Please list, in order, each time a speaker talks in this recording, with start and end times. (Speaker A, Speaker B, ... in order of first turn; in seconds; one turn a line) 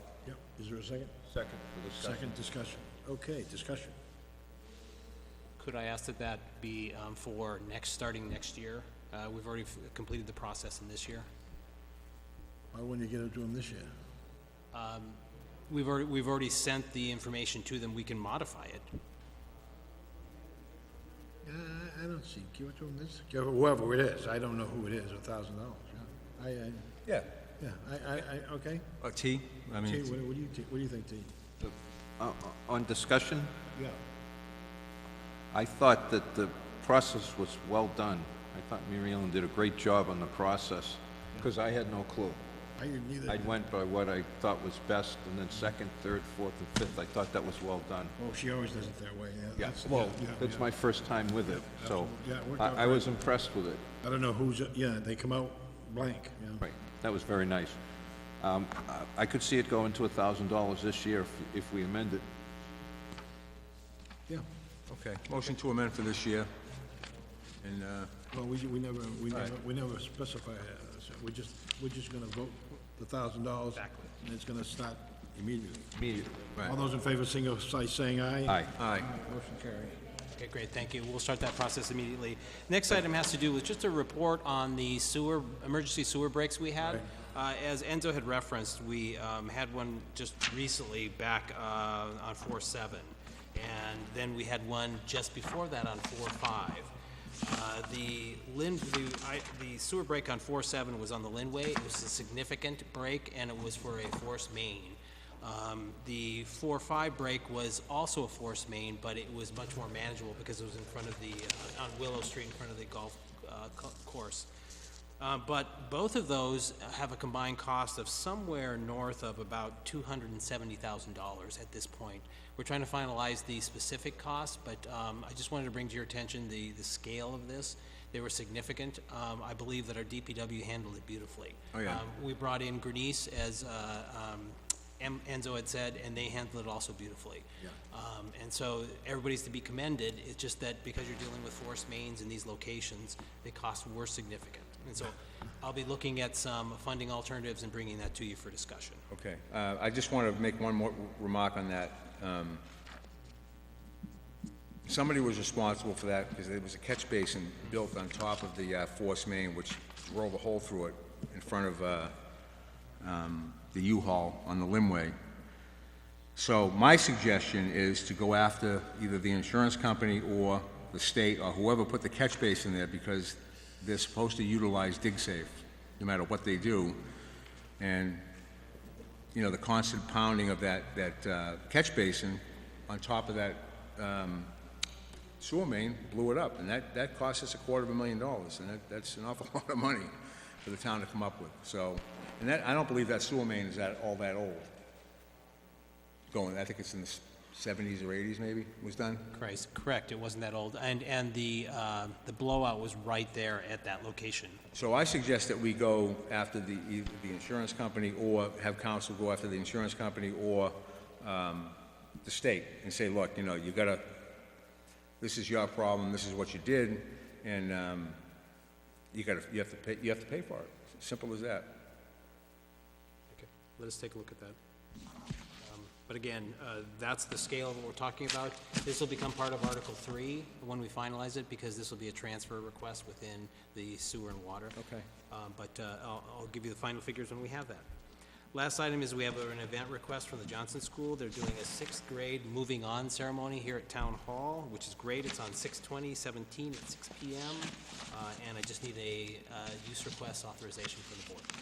Speaker A: 0.2-1.1
Speaker B: 1.3-2.4
Speaker A: 1.9-3.9
Speaker C: 5.6-11.3
Speaker A: 12.7-13.9
Speaker C: 14.7-18.8
Speaker A: 21.4-26.9
Speaker A: 27.6-28.9
Speaker D: 29.0-30.1
Speaker A: 29.8-31.3
Speaker B: 31.6-33.5
Speaker B: 35.5-42.4
Speaker A: 42.8-43.5
Speaker B: 43.3-48.1
Speaker A: 48.2-50.6
Speaker B: 49.6-53.8
Speaker A: 51.5-53.1
Speaker A: 54.0-56.6
Speaker B: 56.6-57.8
Speaker B: 58.4-62.2
Speaker D: 64.9-66.5
Speaker D: 67.6-68.1
Speaker A: 68.3-76.0
Speaker C: 73.8-74.1
Speaker B: 75.9-76.5
Speaker A: 76.6-80.0
Speaker B: 78.5-78.7
Speaker D: 78.8-79.1
Speaker C: 80.3-114.5
Speaker C: 115.2-149.0
Speaker D: 131.7-132.0
Speaker D: 149.1-152.6
Speaker D: 154.9-162.2
Speaker D: 163.0-165.1
Speaker D: 166.3-177.0
Speaker D: 177.8-178.2
Speaker D: 179.3-184.5
Speaker D: 185.4-190.1
Speaker D: 190.6-194.7
Speaker D: 196.3-199.3
Speaker C: 199.3-204.6
Speaker D: 204.7-214.3
Speaker D: 215.2-218.2
Speaker D: 219.1-221.8
Speaker C: 223.3-224.6
Speaker C: 225.6-237.9
Speaker D: 234.8-235.1
Speaker C: 238.5-251.5